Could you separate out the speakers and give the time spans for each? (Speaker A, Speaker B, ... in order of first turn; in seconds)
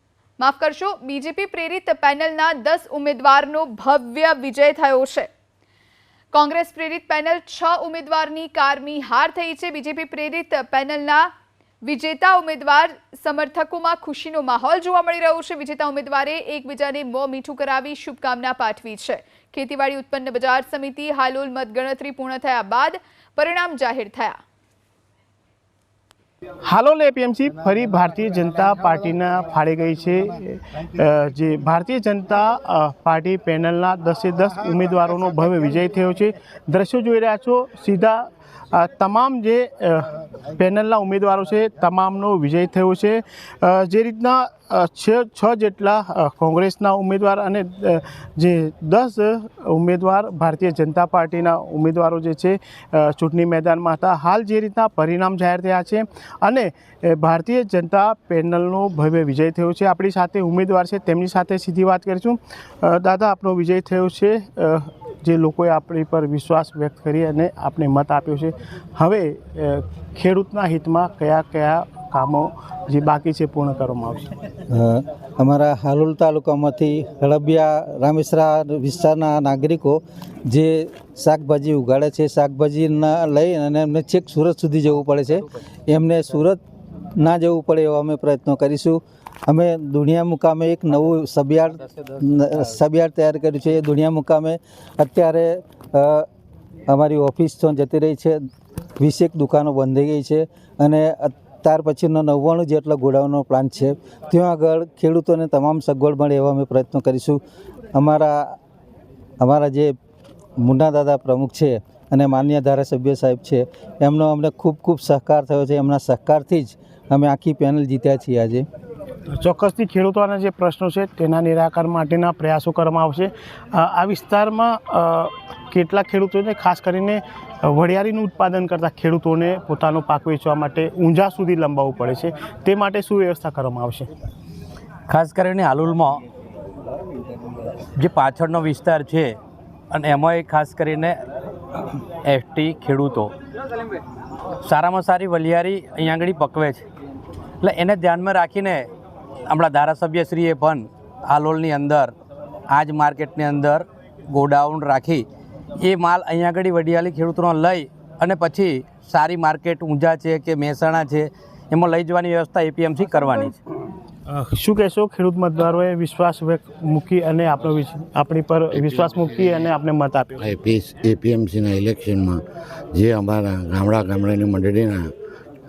Speaker A: 0.4-5.3, 6.3-11.3, 11.8-24.4
Speaker B: 26.6-74.3, 119.3-134.1, 164.3-170.5
Speaker C: 74.7-86.6, 87.2-96.3, 96.9-98.5, 99.0-107.4, 107.9-108.6, 109.4-110.0, 110.6-118.7
Speaker D: 135.1-136.2, 138.0-139.4, 139.9-141.2, 142.2-143.3, 144.6-146.8, 147.6-148.9, 149.5-152.1, 152.7-155.2, 155.8-163.6
Speaker E: 168.7-169.7, 170.4-172.4, 172.9-175.1